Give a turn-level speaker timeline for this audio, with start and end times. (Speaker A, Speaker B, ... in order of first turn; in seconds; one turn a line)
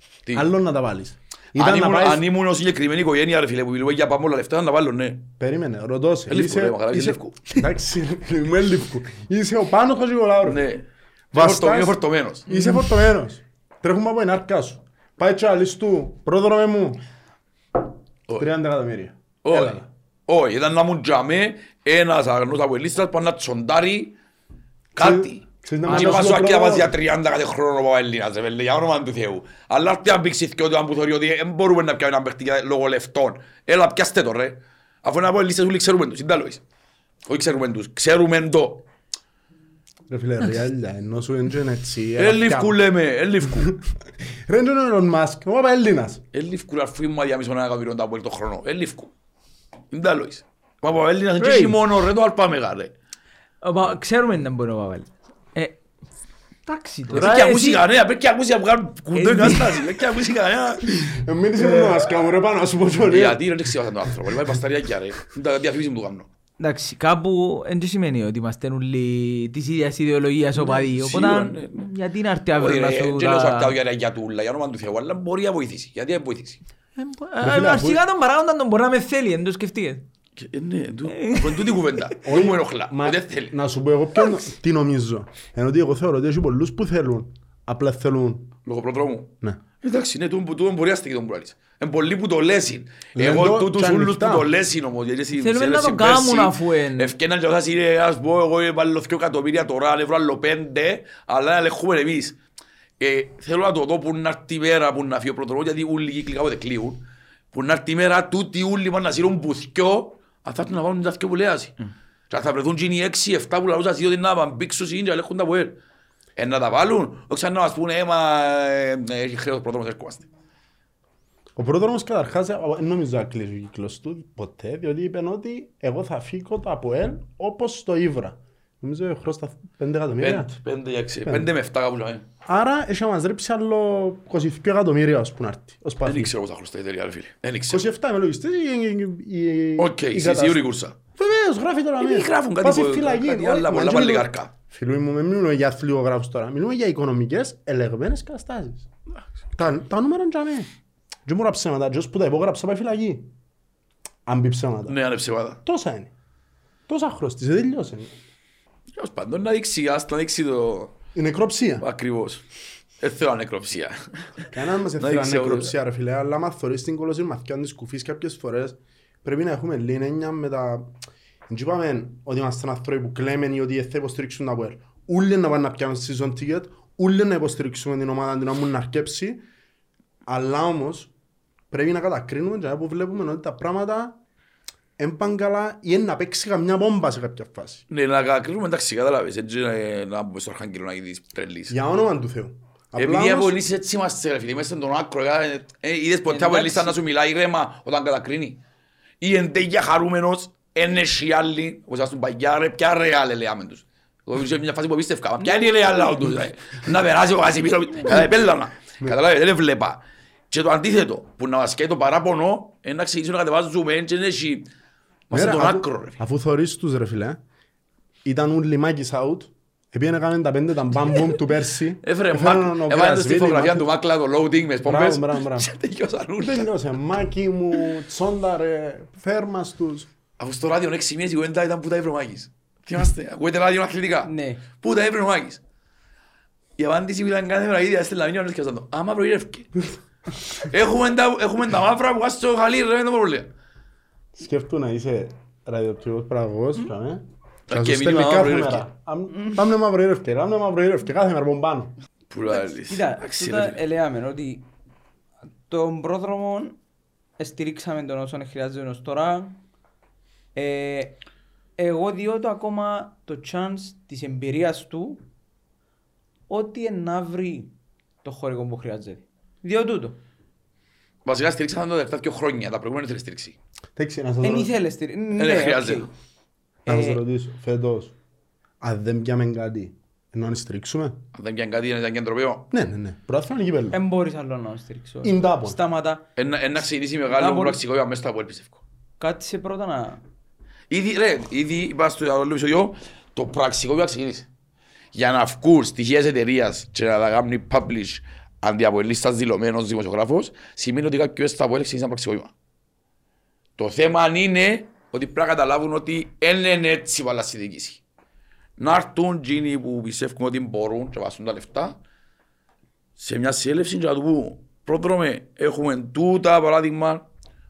Speaker A: 0.3-2.2
Speaker B: 1.6-5.2
Speaker A: 5.4-10.6
Speaker B: 6.3-7.4
Speaker B: 10.4-12.4
Speaker A: 11.3-17.0
Speaker C: 12.5-13.0
Speaker A: 18.4-19.9
Speaker B: 19.4-24.1
Speaker B: 24.9-36.6
Speaker A: 25.0-26.9
Speaker C: 25.9-26.4
Speaker B: 37.2-38.8
Speaker A: 40.1-42.8
Speaker B: 42.2-43.7
Speaker A: 43.6-46.2
Speaker B: 46.3-49.1
Speaker B: 49.9-52.9
Speaker C: 51.4-51.8
Speaker C: 53.6-55.8
Speaker C: 56.6-57.8
Speaker B: 57.1-61.1
Speaker C: 59.1-60.0
Speaker A: 61.0-63.4
Speaker B: 63.1-66.3
Speaker C: 66.6-73.7
Speaker B: 70.5-71.9
Speaker B: 72.5-76.6
Speaker C: 77.0-80.0
Speaker A: 77.4-78.0
Speaker B: 80.4-83.5
Speaker C: 81.1-82.1
Speaker A: 82.2-88.5
Speaker B: 88.7-102.4
Speaker A: 93.1-94.5
Speaker C: 95.3-97.1
Speaker B: 103.0-107.0
Speaker B: 107.5-111.7
Speaker B: 112.3-115.8
Speaker B: 116.3-120.3
Speaker A: 121.5-130.5
Speaker B: 130.2-132.2
Speaker A: 132.4-136.3
Speaker B: 136.0-137.8
Speaker A: 137.7-140.6
Speaker B: 139.8-140.9
Speaker A: 141.1-148.8
Speaker B: 142.0-144.5
Speaker A: 149.5-150.7
Speaker A: 151.2-153.3
Speaker A: 154.2-154.9
Speaker B: 154.9-155.6
Speaker A: 155.6-156.1
Speaker A: 156.9-158.1
Speaker B: 158.9-160.9
Speaker A: 161.1-161.8
Speaker B: 161.8-162.4
Speaker B: 163.0-164.5
Speaker A: 164.5-170.9
Speaker B: 165.0-165.7
Speaker A: 171.5-179.4
Speaker A: 180.3-181.1
Speaker A: 181.7-184.2
Speaker A: 185.0-187.8
Speaker B: 187.9-191.8
Speaker A: 191.7-193.6
Speaker B: 193.0-198.6
Speaker C: 196.2-197.0
Speaker B: 199.2-210.0
Speaker C: 205.4-206.3
Speaker B: 210.5-214.7
Speaker B: 215.3-216.2
Speaker A: 215.3-217.4
Speaker A: 218.2-223.9
Speaker B: 222.0-226.7
Speaker A: 224.8-225.7
Speaker A: 226.4-230.1
Speaker B: 230.4-235.6
Speaker C: 234.2-234.6
Speaker B: 236.8-239.8
Speaker B: 240.5-243.5
Speaker A: 244.3-251.9
Speaker B: 247.7-248.8
Speaker C: 249.3-249.6
Speaker B: 252.3-253.8
Speaker C: 252.5-254.6
Speaker C: 255.7-256.8
Speaker C: 257.4-259.6
Speaker C: 260.5-261.2
Speaker C: 261.8-265.2
Speaker C: 266.5-267.7
Speaker C: 268.2-270.2
Speaker B: 271.2-273.6
Speaker A: 273.9-274.7
Speaker C: 274.4-276.1
Speaker B: 275.4-276.1
Speaker C: 276.9-277.2
Speaker A: 276.9-278.1
Speaker A: 278.8-281.2
Speaker B: 281.3-282.7
Speaker A: 282.7-284.0
Speaker C: 283.9-286.2
Speaker A: 285.2-285.8
Speaker B: 286.4-288.8
Speaker C: 287.3-287.8
Speaker C: 289.2-290.2
Speaker B: 290.9-294.5
Speaker B: 295.1-302.5
Speaker B: 303.8-308.0
Speaker B: 308.8-312.0
Speaker B: 313.2-317.2